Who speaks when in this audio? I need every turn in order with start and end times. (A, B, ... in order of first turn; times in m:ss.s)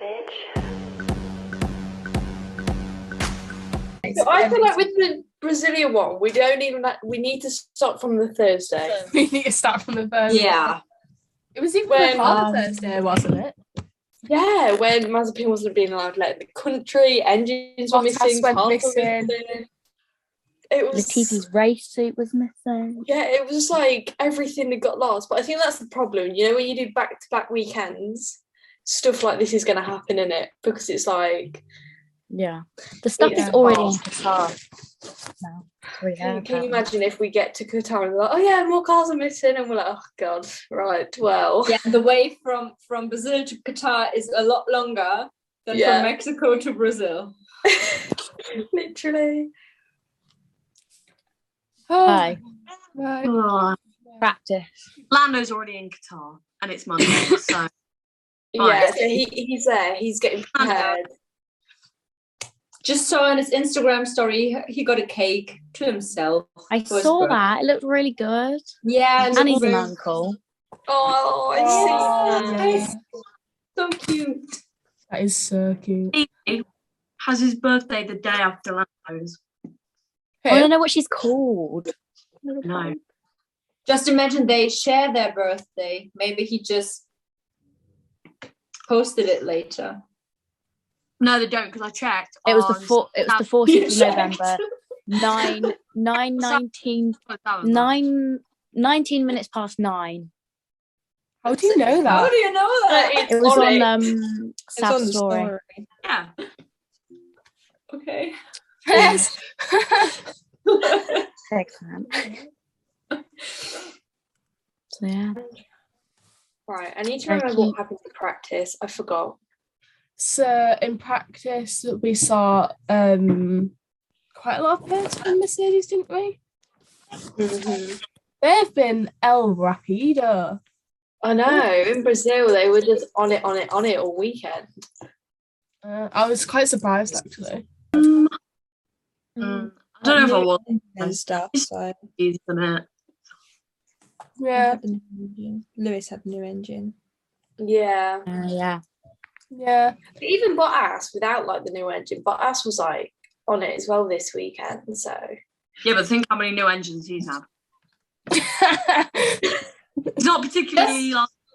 0:04.0-0:04.7 A
0:04.0-0:09.1 B
0:09.1-0:10.7 A
0:10.3-0:10.8 C
0:11.5-0:13.6 A
0:11.9-0:12.4 B
0:12.2-0:13.0 D
0:14.2-0:19.7 B
0:17.9-0:19.3 A
0:20.7-0:21.4 B
0:20.9-0:23.0 D
0:23.0-0:31.6 B
0:32.3-0:34.6 D
0:33.2-0:34.0 B
0:35.4-0:36.9 D
0:36.2-0:41.8 B
0:41.6-0:47.3 C
0:45.7-0:46.1 B
0:47.6-0:49.5 B
0:51.9-0:52.4 A
0:52.0-0:52.4 D
0:52.9-0:53.3 A
0:53.2-0:53.8 E
0:54.2-0:54.7 D
0:55.1-0:57.7 E
0:58.5-1:01.1 B
0:58.6-0:59.2 E
1:00.5-1:01.0 E
1:02.8-1:07.4 C
1:06.7-1:08.6 D
1:08.8-1:09.9 C
1:09.3-1:10.4 D
1:10.9-1:12.9 B
1:11.5-1:13.0 A
1:11.7-1:12.9 C
1:13.8-1:14.4 C
1:15.1-1:16.2 A
1:16.1-1:16.6 E
1:17.2-1:19.4 E
1:20.4-1:20.7 A
1:20.5-1:21.9 D
1:22.5-1:22.9 D
1:22.6-1:23.0 E
1:23.8-1:27.0 C
1:28.9-1:30.0 C
1:31.2-1:33.5 E
1:32.4-1:40.3 D
1:33.6-1:34.6 C
1:36.4-1:36.6 E
1:37.2-1:37.9 E
1:41.4-1:42.3 A
1:42.0-1:43.3 C
1:42.9-1:44.0 B
1:43.3-1:45.5 D
1:44.8-1:45.9 F
1:46.0-1:46.3 E
1:47.9-1:48.4 C
1:48.9-1:50.2 A
1:48.9-1:49.2 D
1:50.6-1:51.2 C
1:51.5-1:52.2 D
1:54.9-1:55.4 D
1:56.7-1:59.4 B
1:57.3-1:57.8 D
2:00.2-2:03.7 A
2:04.3-2:06.4 A
2:07.4-2:08.0 B
2:08.4-2:10.6 A
2:11.2-2:14.7 B
2:15.8-2:17.6 A
2:17.9-2:18.3 E
2:19.4-2:22.0 F
2:19.4-2:22.9 E
2:24.4-2:24.8 A
2:24.5-2:26.9 F
2:27.6-2:28.2 B
2:28.3-2:28.8 D
2:29.5-2:30.0 A
2:30.2-2:35.2 B
2:35.8-2:37.4 E
2:38.3-2:39.5 A
2:40.2-2:41.3 E